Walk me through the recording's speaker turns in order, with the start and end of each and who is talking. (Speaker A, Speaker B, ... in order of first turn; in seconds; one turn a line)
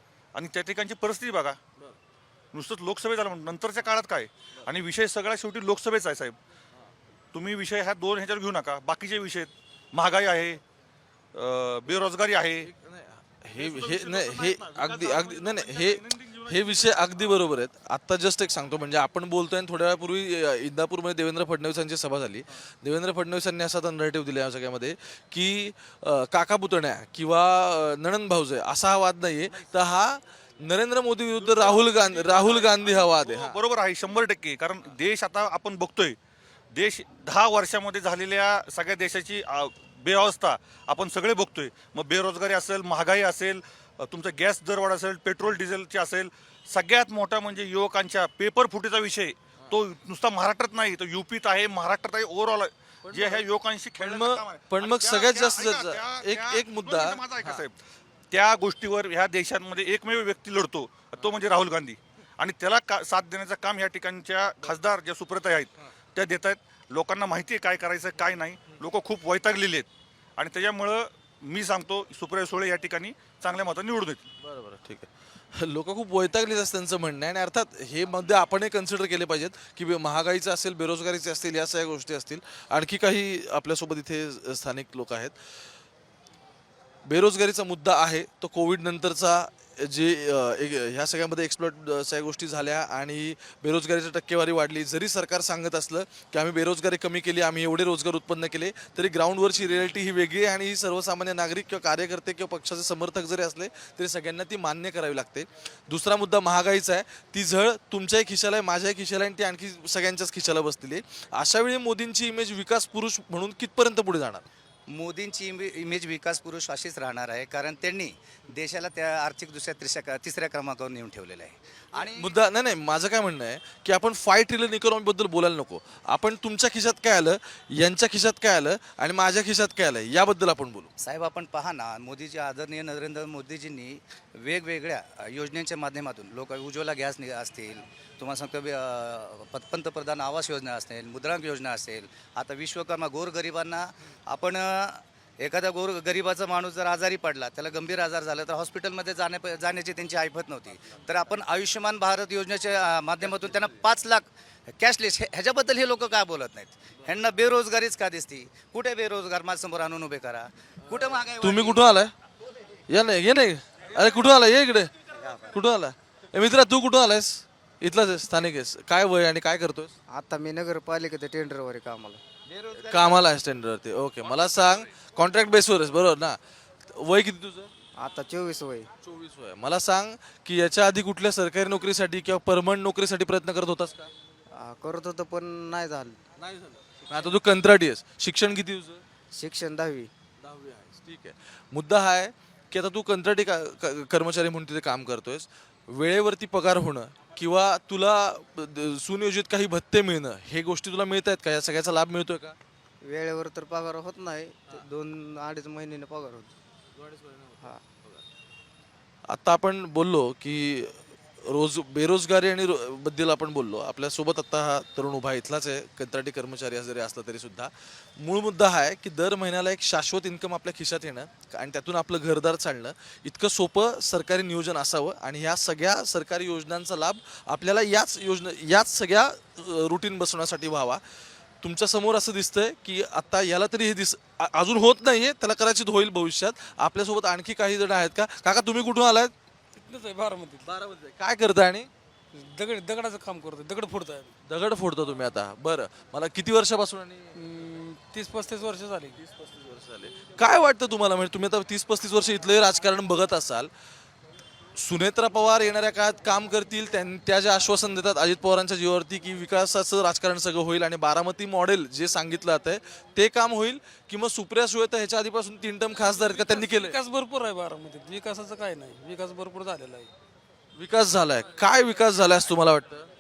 Speaker A: 0.3-1.6
Speaker A: 2.5-6.3
Speaker A: 7.3-10.6
Speaker A: 11.3-12.7
Speaker B: 12.6-33.6
Speaker A: 13.6-17.0
Speaker A: 31.8-36.1
Speaker A: 36.7-57.8
Speaker B: 53.1-53.4
Speaker B: 54.0-57.6
Speaker A: 58.3-74.3
Speaker B: 74.4-85.3
Speaker B: 87.0-114.5
Speaker C: 114.9-122.2
Speaker B: 122.0-130.9
Speaker C: 131.0-161.8
Speaker B: 161.4-162.1
Speaker B: 162.9-164.9
Speaker B: 165.5-169.9
Speaker D: 170.1-172.2
Speaker B: 172.7-177.7
Speaker D: 178.0-178.9
Speaker B: 179.0-184.1
Speaker D: 184.5-186.2
Speaker B: 186.4-189.0
Speaker D: 189.3-190.1
Speaker B: 190.4-202.6
Speaker D: 203.0-206.5
Speaker B: 207.0-208.2
Speaker B: 209.3-231.0
Speaker B: 231.6-239.3
Speaker E: 239.8-240.7
Speaker B: 240.6-241.9
Speaker E: 242.3-244.3
Speaker B: 244.4-247.3
Speaker E: 247.3-249.2
Speaker B: 249.2-253.7
Speaker B: 254.8-266.9
Speaker E: 266.2-270.1
Speaker B: 270.7-273.1